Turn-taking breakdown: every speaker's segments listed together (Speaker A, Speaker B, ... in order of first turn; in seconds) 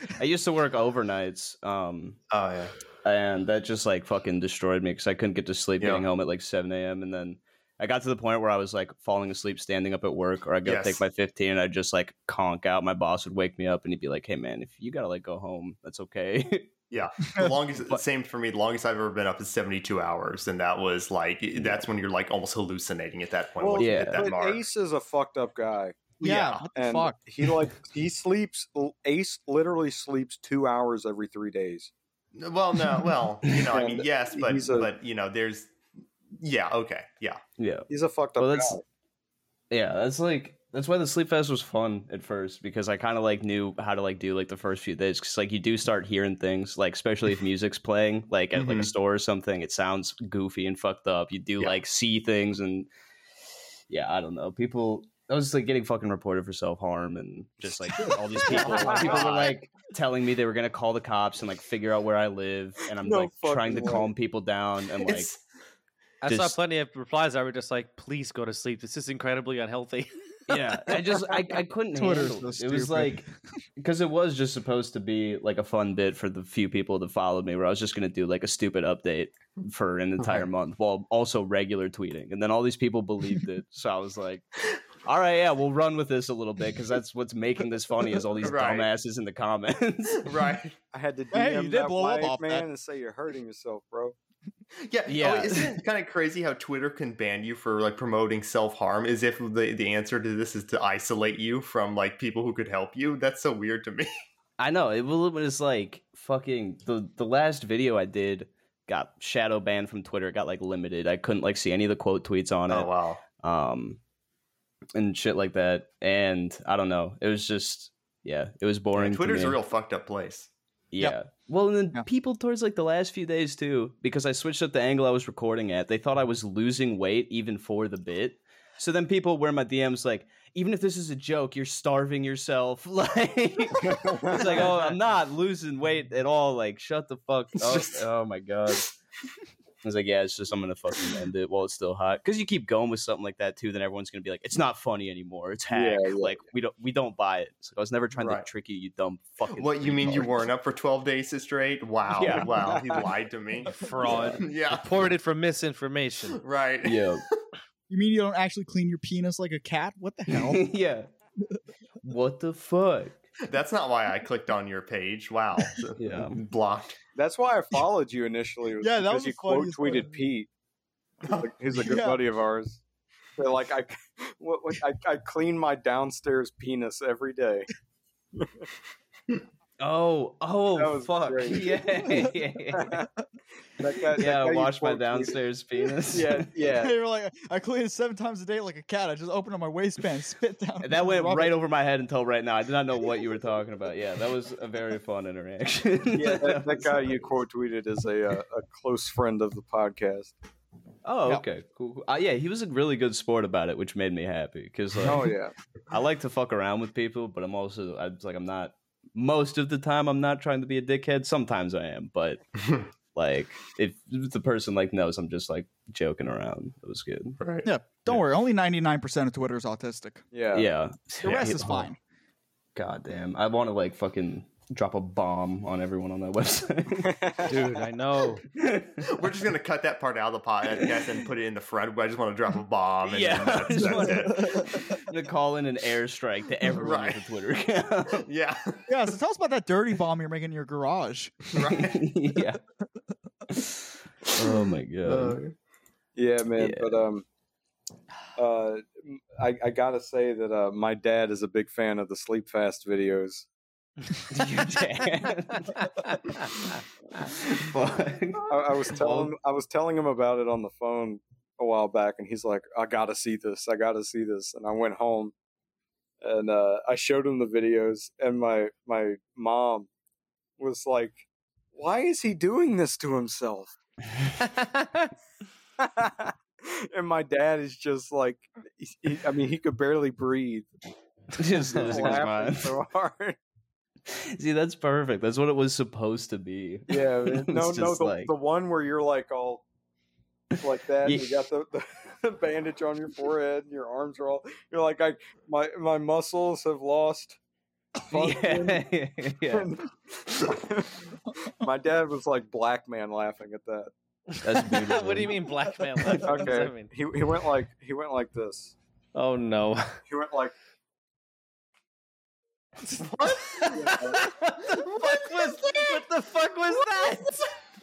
Speaker A: 0.2-2.2, 3.0-16.7, 23.8-24.3, 37.6-37.9, 38.4-38.8, 39.7-52.9, 53.9-65.3, 66.3-66.6, 70.5-73.3, 73.8-84.4, 85.1-90.3, 95.1-95.8, 104.6-114.0, 115.0-119.6, 120.9-138.9, 139.8-150.5, 152.1-152.5, 154.1-154.4, 156.8-157.2, 160.3-161.1, 162.0-163.2, 166.0-166.4, 179.8-183.0, 184.2-186.5, 190.8-197.3, 201.0-205.3, 205.9-212.4, 213.1-217.4, 220.5-221.9, 222.8-227.2, 228.5-229.0, 233.0-238.2, 241.7-242.6, 243.5-243.8, 244.3-245.4, 246.6-246.9, 254.3-256.4, 257.2-259.3, 281.4-282.8, 284.1-288.3, 291.0-291.3, 298.1-299.8, 304.4-305.4
Speaker B: 2.3-2.7, 5.8-6.0, 10.6-11.0, 16.9-24.7, 26.2-26.7, 32.4-35.7, 36.4-37.4, 48.5-48.9, 58.4-59.6, 65.0-65.4, 88.4-88.9, 90.2-90.8, 94.9-104.1, 112.7-113.2, 119.0-120.5, 137.6-138.0, 148.2-148.5, 149.5-155.2, 156.3-157.3, 163.5-167.0, 171.2-171.5, 217.4-217.7, 229.1-235.0, 236.7-237.3, 238.2-238.8, 241.5-242.1, 245.1-245.6, 313.0-313.8, 314.9-316.0
Speaker C: 23.6-26.0, 26.8-31.9, 33.7-34.9, 37.9-38.8, 58.8-59.1, 63.0-64.1, 90.9-94.2, 134.1-134.4, 145.7-146.4, 152.5-153.1, 167.2-170.5, 171.4-172.8, 173.4-177.7, 180.8-181.8, 182.8-183.1, 183.8-185.4, 186.1-186.9, 196.1-200.3, 205.1-205.5, 220.3-220.7, 246.2-247.2, 248.4-253.5, 258.5-265.3, 266.2-269.9, 270.6-273.7, 275.8-280.7, 281.7-283.4, 286.9-289.6, 290.6-297.4, 298.1-298.9, 299.5-301.0, 301.6-303.9, 306.2-308.7, 310.1-310.5, 313.8-314.2
Speaker D: 26.2-27.2, 72.0-73.3, 91.3-92.7, 157.9-160.7, 168.8-170.1, 171.8-172.2, 186.8-191.6, 217.7-220.2, 221.2-222.0, 233.9-235.0, 238.9-241.4
Speaker E: 66.2-70.1, 134.7-135.0, 153.7-156.4, 227.5-228.4, 255.8-256.1, 274.4-275.1, 304.4-306.9, 309.1-310.0, 312.9-317.5